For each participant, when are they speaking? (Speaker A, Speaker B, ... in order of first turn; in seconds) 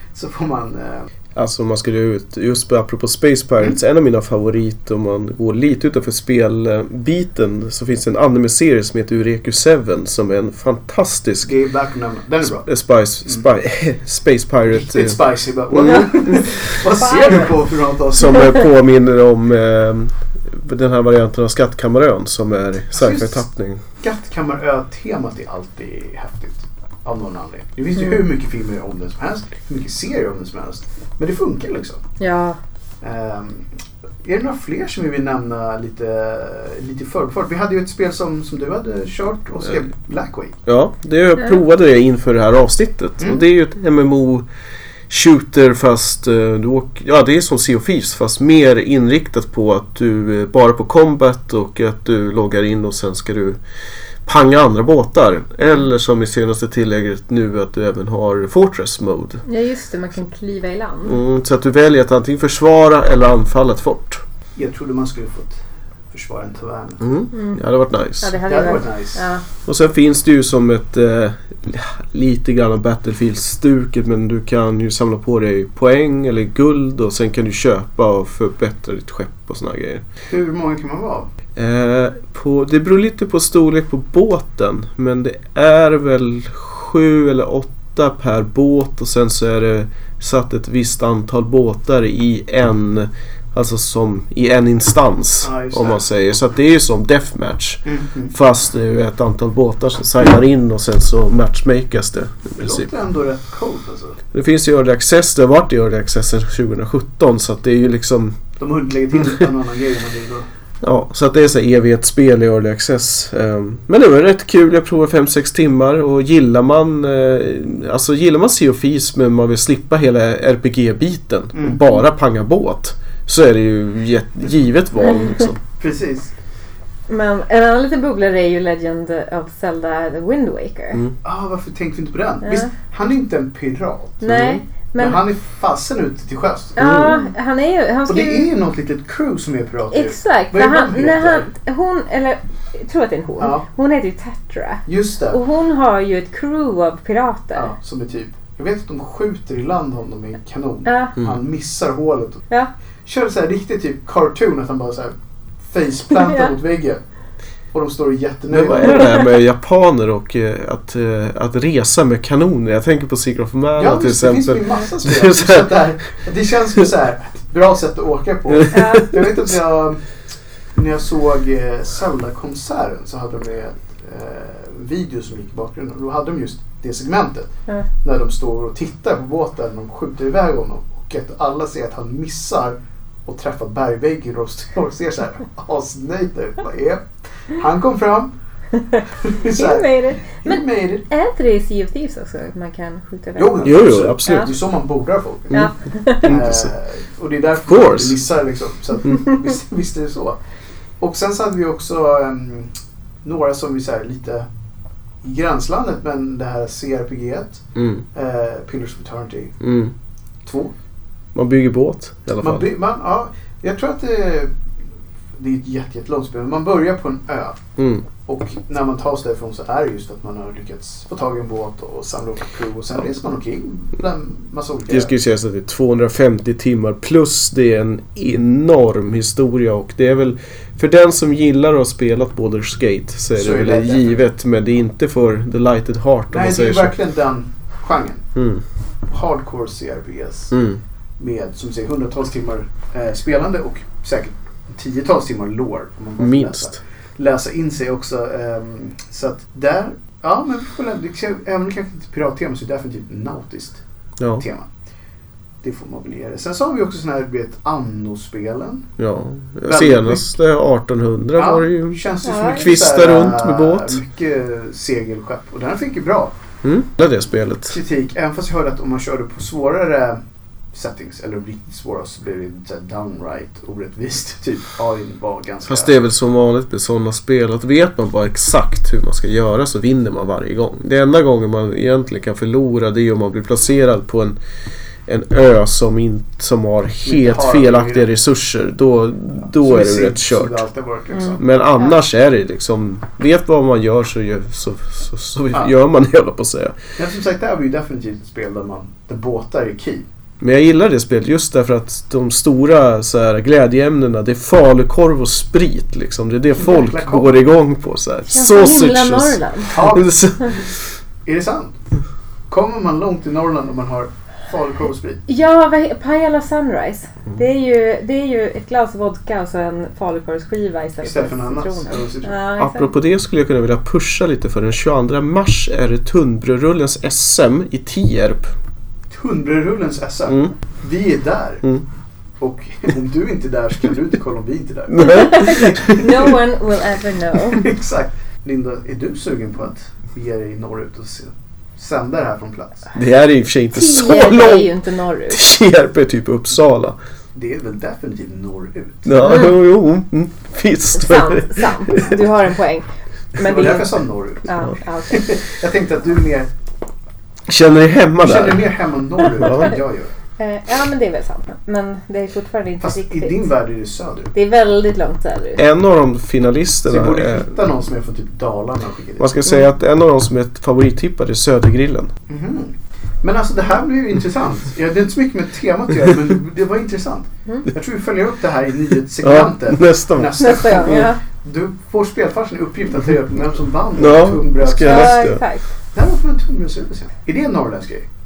Speaker A: 0.1-1.1, 11.4-12.7, 14.7-18.6, 23.0-23.4, 24.0-32.0, 33.0-33.7, 34.2-40.6, 64.6-67.0, 68.4-69.3, 80.3-81.3, 95.4-96.0, 97.8-98.3, 102.6-104.2, 108.6-110.5, 121.5-122.0, 125.8-126.3, 131.2-134.3, 135.0-136.8, 138.1-141.5, 143.4-143.7, 144.9-145.4, 147.5-152.4, 153.1-157.0, 157.7-159.2, 163.8-170.0, 170.7-177.5, 178.0-188.3, 189.2-191.1, 193.4-195.7, 196.2-200.4, 201.0-204.5, 205.2-207.6, 208.1-209.6, 210.4-210.7, 212.4-214.5, 215.4-217.6, 218.2-225.1, 233.4-234.2, 236.3-238.2, 239.1-240.5, 241.2-253.8, 254.4-254.7, 255.6-258.9, 259.7-260.3, 261.4-266.3, 267.7-270.2, 270.7-275.9, 287.1-288.1, 289.5-291.4, 297.0-300.1, 306.5-307.4, 309.7-310.6, 311.2-311.8, 312.5-315.2, 321.0-322.4, 329.1-331.6, 332.4-336.3, 337.4-342.9, 347.4-349.4, 353.4-354.6, 355.1-356.5, 358.2-360.1, 362.8-364.3, 366.9-369.4, 372.3-385.3, 385.9-388.1
Speaker B: 1.4-11.5, 12.6-15.2, 15.7-16.7, 18.1-23.8, 40.7-44.5, 45.1-53.6, 54.3-59.4, 61.1-64.2, 67.0-68.4, 69.7-80.0, 81.6-102.9, 104.3-108.4, 110.8-125.6, 134.2-134.6, 136.8-137.2, 158.5-165.8, 168.6-169.1, 193.6-194.5, 195.5-196.7, 197.7-198.2, 207.8-208.1, 209.6-209.9, 211.3-212.7, 217.8-218.1, 224.9-236.9, 238.4-238.6, 240.5-240.8, 246.2-246.8, 259.0-264.0, 266.6-267.8, 275.6-284.4, 285.1-290.6, 291.4-296.8, 300.4-310.7, 322.6-328.5, 334.9-336.1, 342.9-344.7, 345.3-347.0, 349.1-352.1, 357.5-358.7, 359.2-359.7, 365.6-367.5, 369.2-372.1, 379.2-381.1, 384.0-385.4
Speaker C: 16.9-17.6, 32.2-32.6, 59.5-61.2, 67.3-67.6, 68.2-69.4, 127.1-131.0, 132.4-132.7, 134.2-135.2, 136.8-138.5, 139.9-147.7, 150.9-151.2, 156.2-156.5, 168.7-169.2, 188.8-194.5, 195.5-196.4, 262.2-262.7, 291.1-292.0, 308.3-309.7, 315.3-322.9, 335.0-337.7, 343.7-345.4, 350.9-355.3, 360.4-363.5, 364.3-365.6, 380.4-381.2, 384.8-385.7